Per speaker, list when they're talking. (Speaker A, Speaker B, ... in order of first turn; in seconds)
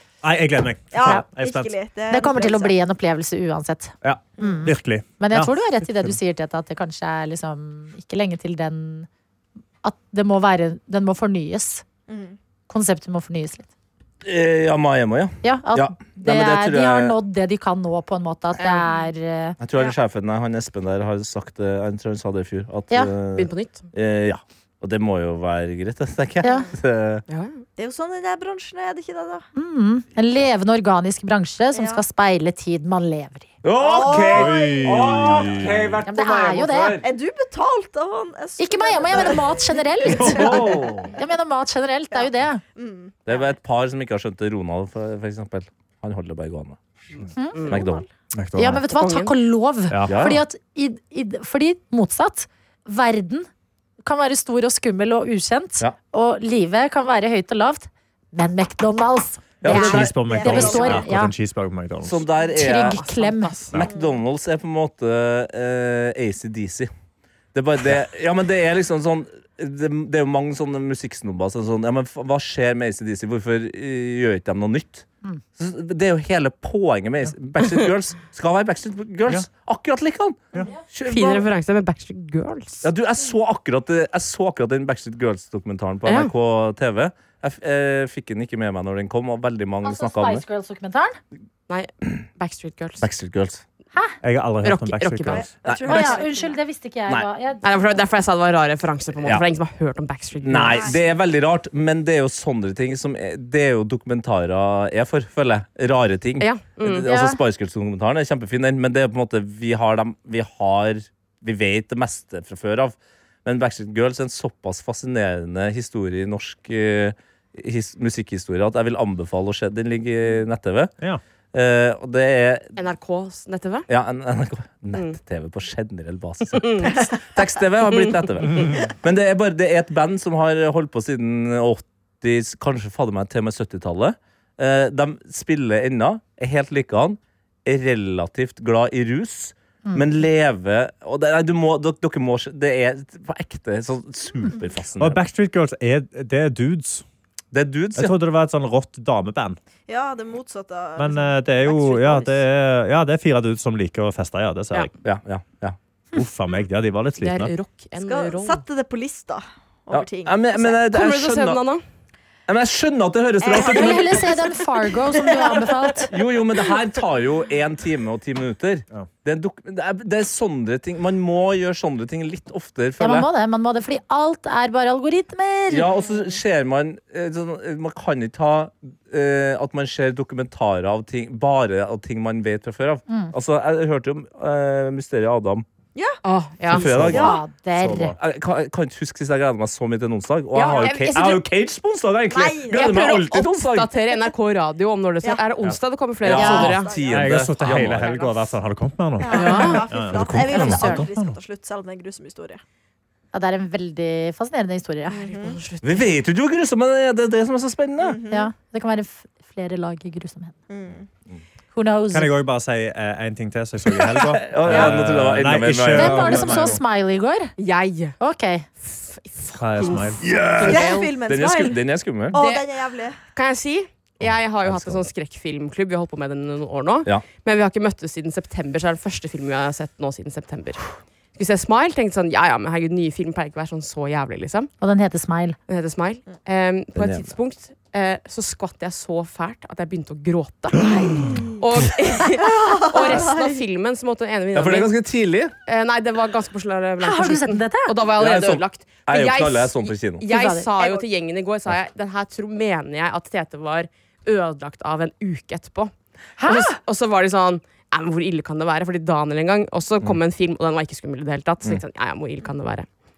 Speaker A: 0.2-1.7, 4.0-6.2, 34.1-36.0, 48.3-48.8, 49.9-50.2, 59.7-62.2, 94.2-95.5, 128.5-128.8, 145.0-147.0, 147.9-149.6, 151.0-154.9, 156.1-157.5, 186.8-188.2, 197.1-201.4, 212.1-216.8, 219.5-220.2
Speaker B: 0.9-2.8, 12.1-12.3, 26.4-26.7, 27.8-29.4, 31.7-32.0, 33.8-35.1, 37.0-41.1, 42.2-43.5, 47.7-48.0, 60.2-61.1, 63.9-64.2, 95.3-96.5, 149.9-152.4, 157.9-160.7, 163.4-166.1, 187.1-187.4, 192.3-193.1, 196.2-198.4, 199.2-202.6, 205.1-205.6, 208.0-208.5, 210.7-211.1, 220.6-223.2, 240.8-241.6, 242.4-243.6, 250.8-251.0
Speaker C: 2.1-9.1, 9.8-11.8, 12.7-13.7, 15.4-19.6, 26.4-26.7, 29.5-33.5, 36.1-37.0, 38.6-42.6, 47.4-47.7, 48.5-53.5, 54.0-61.3, 62.5-63.6, 89.8-91.2, 95.8-98.0, 107.1-107.4, 163.5-166.1, 173.0-175.9, 183.1-183.3, 187.0-188.1, 196.4-196.7, 200.5-201.0, 203.3-205.3, 208.3-210.5, 211.7-212.3, 215.9-217.5, 218.2-218.7, 234.8-235.6, 247.0-247.9, 250.3-250.7, 256.4-256.8
Speaker D: 14.2-17.1, 19.6-27.2, 33.6-37.1, 40.1-41.1, 43.2-46.8, 47.6-48.0, 50.1-50.4, 59.6-60.7, 62.0-63.0, 63.7-66.9, 67.5-75.0, 75.6-81.5, 82.8-90.4, 93.0-93.6, 95.6-96.1, 100.4-120.9, 121.5-122.7, 123.9-145.2, 147.5-148.1, 155.0-155.8, 159.9-161.6, 162.5-164.2, 166.1-173.3, 175.7-185.6, 186.7-187.4, 188.2-193.9, 196.2-198.1, 200.1-200.9, 205.8-208.2, 214.1-216.8, 220.2-222.4, 224.2-225.0, 236.9-237.3, 244.5-245.5, 248.2-250.2
Speaker E: 18.6-18.9, 23.4-23.9, 27.3-27.6, 47.5-47.8, 48.9-49.3, 62.7-63.8, 81.0-82.8, 86.0-86.3, 91.7-93.0, 94.6-95.5, 97.6-100.9, 106.4-107.1, 122.8-123.9, 126.5-127.0, 127.9-128.7, 157.2-158.6, 160.8-161.8, 186.2-186.9, 190.5-191.5, 192.7-196.9, 199.3-199.9, 205.2-206.1, 217.6-218.2, 218.8-221.1, 222.3-222.7, 223.3-230.8, 231.3-234.7, 235.7-240.9, 241.6-244.9, 245.7-255.9, 256.4-262.9